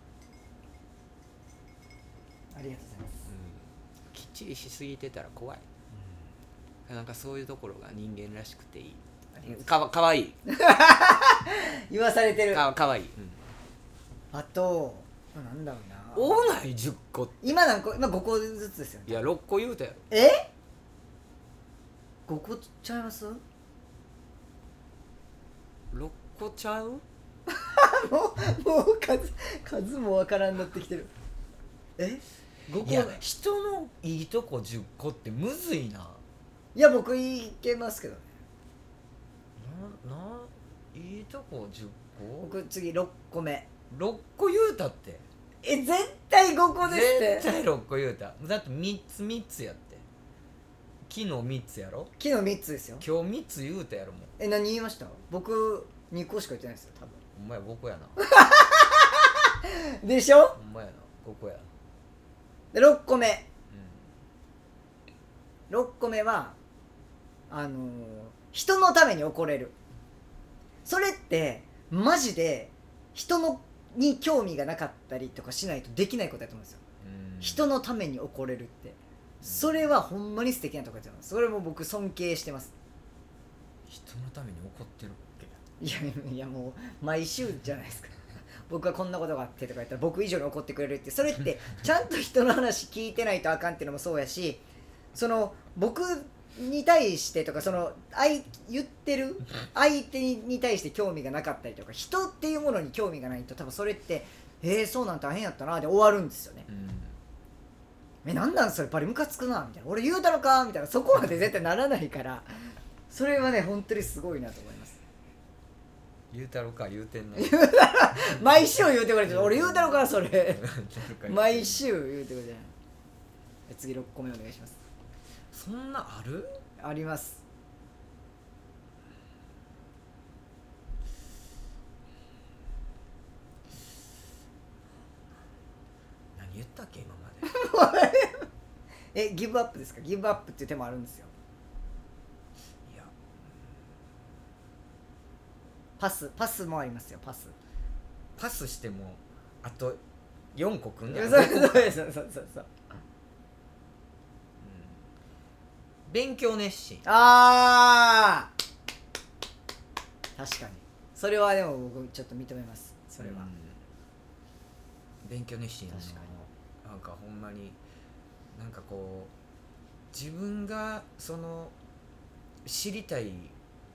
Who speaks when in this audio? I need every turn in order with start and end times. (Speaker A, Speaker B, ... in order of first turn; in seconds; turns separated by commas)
Speaker A: 2.5-3.2, Speaker B: 3.2-5.6, Speaker B: 6.9-10.4, Speaker A: 9.3-9.7, Speaker A: 10.4-12.6, Speaker B: 12.5-13.4, Speaker A: 14.3-16.4, Speaker B: 16.1-17.4, Speaker A: 17.4-19.3, Speaker B: 19.1-20.0, Speaker A: 20.1-20.5, Speaker A: 22.3-23.4, Speaker B: 25.9-27.0, Speaker A: 27.5-31.1, Speaker A: 32.0-33.2, Speaker B: 32.8-36.2, Speaker A: 36.7-38.2, Speaker B: 39.6-42.5, Speaker A: 42.4-43.7, Speaker B: 43.9-45.2, Speaker A: 45.6-47.5, Speaker B: 46.8-50.0, Speaker B: 51.1-52.1, Speaker A: 52.2-53.0, Speaker B: 53.0-54.3, Speaker A: 54.4-57.2, Speaker B: 57.3-58.1, Speaker A: 58.2-60.6, Speaker B: 60.5-61.7, Speaker A: 62.7-63.5, Speaker B: 63.7-64.0, Speaker A: 65.7-66.5, Speaker A: 67.5-69.7, Speaker A: 70.8-76.8, Speaker B: 77.0-77.7, Speaker A: 77.4-82.7, Speaker B: 79.4-79.8, Speaker B: 83.9-85.6, Speaker A: 85.8-88.1, Speaker A: 88.7-94.6, Speaker A: 95.1-106.7, Speaker B: 106.7-107.2, Speaker A: 108.2-115.0, Speaker B: 116.3-117.7, Speaker A: 117.3-120.6, Speaker B: 119.2-121.8, Speaker A: 121.2-122.7, Speaker A: 123.7-124.8, Speaker B: 125.5-126.6, Speaker A: 126.8-127.4, Speaker B: 136.3-137.5, Speaker A: 137.4-138.4, Speaker A: 139.1-141.3, Speaker B: 142.8-143.1, Speaker A: 146.0-147.5, Speaker B: 148.3-150.0, Speaker B: 150.5-152.0, Speaker A: 151.1-152.7, Speaker B: 154.6-155.0, Speaker B: 156.1-157.0, Speaker A: 157.0-158.5, Speaker A: 160.4-163.5, Speaker B: 163.2-163.8, Speaker B: 165.2-167.8, Speaker A: 165.9-166.3, Speaker B: 168.5-169.3, Speaker B: 170.1-171.7, Speaker B: 172.6-173.5